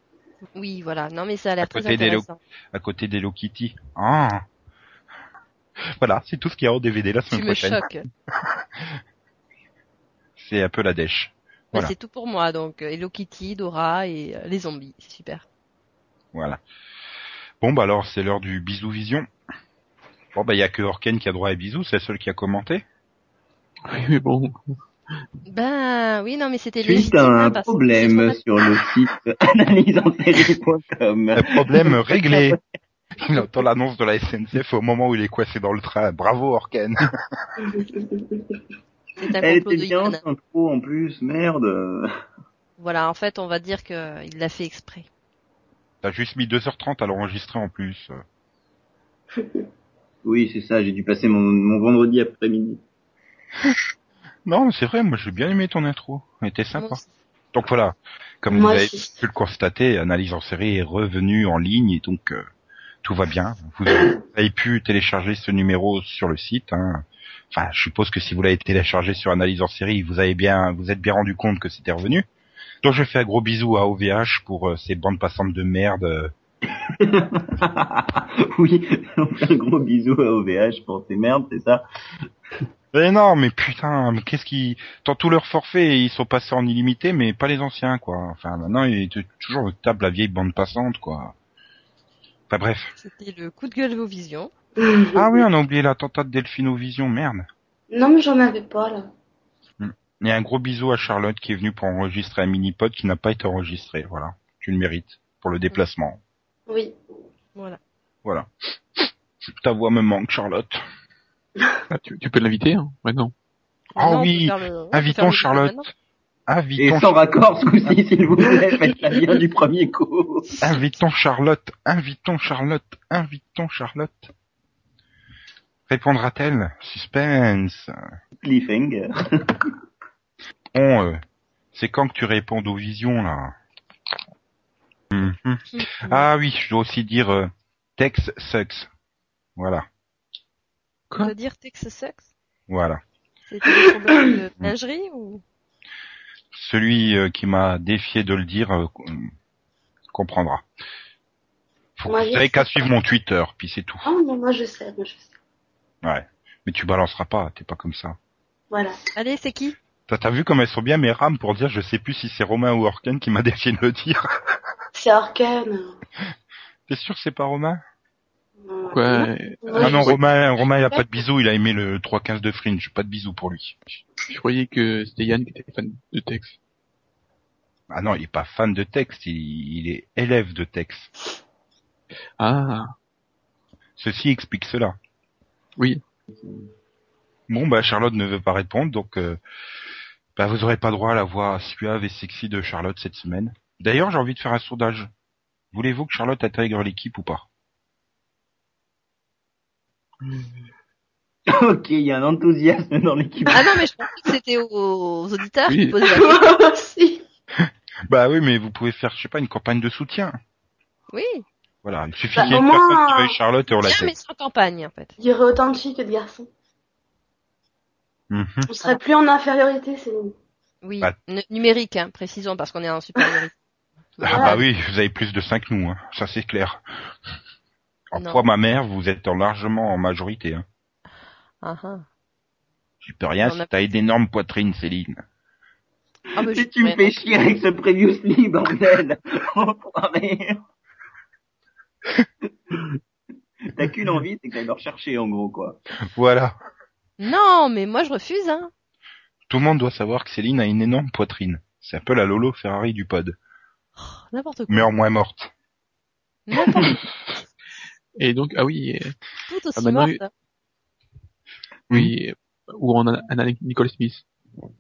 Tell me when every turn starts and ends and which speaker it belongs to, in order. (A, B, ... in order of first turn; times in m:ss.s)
0:00.6-0:02.4 A
0:01.6-0:04.4 B
0:05.8-0:07.8 B
0:07.3-0:08.1 A
0:10.4-0:11.9 B
0:11.7-0:15.4 A
0:16.3-0:16.6 B
0:17.6-0:19.3 B
0:20.3-0:22.8 B
0:23.9-0:24.6 C
0:25.5-0:28.4 A
0:26.8-0:32.6 D
0:31.4-0:32.6 B
0:33.2-0:37.0 B
0:37.6-0:38.6 E
0:39.2-0:40.2 A
0:39.4-0:42.1 D
0:42.8-0:45.1 A
0:46.0-0:48.2 B
0:49.4-0:49.6 E
0:50.2-0:52.8 D
0:54.5-0:57.0 B
0:56.8-0:57.0 A
0:57.5-1:02.5 B
0:58.5-0:59.2 E
1:03.0-1:12.3 B
1:12.8-1:16.3 B
1:17.0-1:21.8 D
1:22.9-1:31.4 B
1:32.5-1:32.9 B
1:33.0-1:34.5 A
1:34.8-1:35.4 E
1:35.2-1:37.5 B
1:37.9-1:39.1 E
1:39.8-1:46.2 B
1:46.7-1:46.9 E
1:48.2-1:50.8 B
1:51.9-1:53.3 C
1:54.0-1:55.9 A
1:54.0-1:55.9 B
1:56.5-1:57.2 B
1:56.8-2:00.6 D
2:00.6-2:04.3 B
2:05.9-2:08.0 B
2:08.4-2:09.6 D
2:10.7-2:11.2 B
2:11.7-2:13.5 B
2:15.1-2:18.9 B
2:15.7-2:16.2 A
2:19.6-2:19.8 B
2:21.2-2:22.2 A
2:22.7-2:23.0 B
2:23.5-2:25.4 A
2:26.5-2:29.3 B
2:30.1-2:30.6 B
2:32.0-2:34.1 B
2:32.1-2:32.7 E
2:34.0-2:35.3 E
2:36.0-2:38.2 B
2:39.2-2:39.8 A
2:40.1-2:44.3 B
2:45.0-2:46.0 E
2:46.9-2:47.8 B
2:48.6-2:50.1 E
2:48.9-2:50.2 C
2:49.8-2:53.8 B
2:54.2-2:56.6 C
2:57.9-3:01.1 B
3:02.4-3:02.9 C
3:04.0-3:05.0 B
3:07.5-3:09.4 B
3:10.4-3:15.1 B
3:15.7-3:17.5 B
3:21.5-3:23.8 D
3:23.5-3:26.6 A
3:25.7-3:26.0 C
3:26.0-3:27.2 E
3:27.6-3:30.4 B
3:31.1-3:31.4 A
3:31.8-3:34.1 B
3:32.4-3:33.3 E
3:33.8-3:35.1 A
3:35.2-3:36.5 E
3:38.3-3:38.7 B
3:38.7-3:40.3 E
3:40.8-3:43.6 A
3:44.2-3:44.6 A
3:44.2-3:46.8 B
3:44.3-3:44.6 E
3:48.1-3:50.6 B
3:48.2-3:48.5 A
3:51.6-3:52.1 A
3:53.0-3:55.2 B
3:53.4-3:53.7 A
3:56.3-3:57.3 A
3:56.4-4:00.6 D
4:03.7-4:05.8 D
4:06.2-4:06.6 B
4:07.2-4:08.7 A
4:09.5-4:13.4 B
4:14.0-4:14.9 A
4:14.7-4:15.5 B
4:16.5-4:17.0 A
4:18.2-4:19.2 C
4:19.5-4:20.3 A
4:19.8-4:20.2 C
4:21.9-4:24.3 C